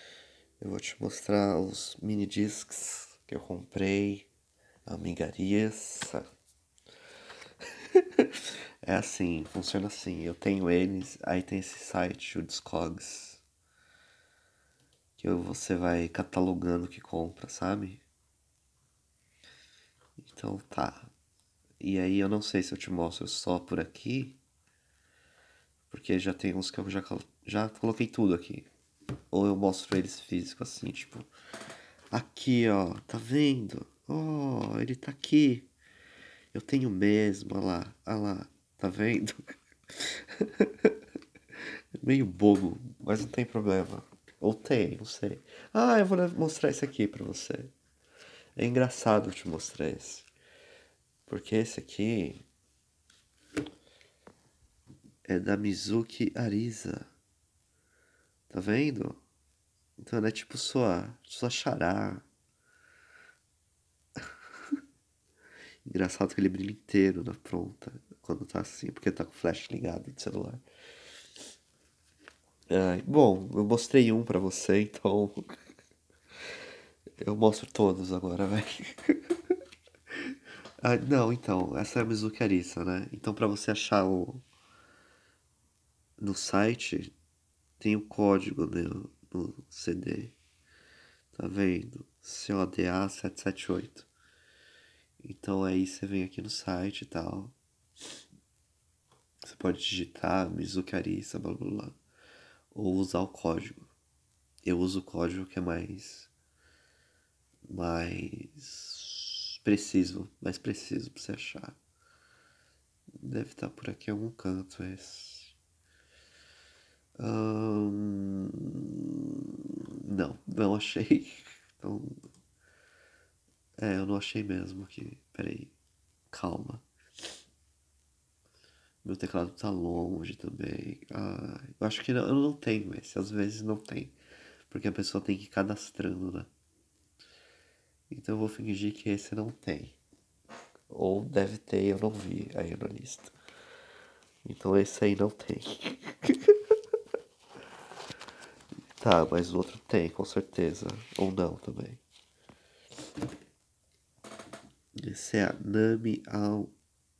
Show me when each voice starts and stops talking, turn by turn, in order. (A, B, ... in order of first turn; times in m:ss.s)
0:00.6-0:04.3 A
0:04.9-0:06.2 A
0:07.9-0:13.4 A
0:15.2-0:18.0 A
0:20.2-0:21.1 A
0:21.8-0:24.4 A
0:25.9-0:28.7 A
0:29.3-0:31.3 A
0:32.1-0:35.7 A
0:36.5-0:41.0 A
0:42.0-0:47.7 A
0:48.6-0:50.3 A
0:51.3-0:52.4 A
0:55.3-0:57.1 A
0:58.5-0:59.2 A
1:00.0-1:02.3 A
1:04.2-1:04.8 A
1:05.8-1:10.6 A
1:12.7-1:15.5 A
1:17.2-1:19.6 A
1:20.2-1:24.4 A
1:26.2-1:27.1 A
1:27.8-1:30.4 A
1:31.3-1:34.1 A
1:35.2-1:37.6 A
1:39.4-1:42.0 A
1:42.7-1:43.9 A
1:44.6-1:46.3 A
1:47.7-1:51.8 A
1:53.2-1:55.6 A
1:57.2-2:02.2 A
2:03.8-2:05.7 A
2:06.3-2:06.8 A
2:09.0-2:14.2 A
2:14.7-2:16.5 A
2:18.1-2:20.0 A
2:20.9-2:23.3 A
2:24.4-2:26.8 A
2:29.0-2:32.0 A
2:35.0-2:36.7 A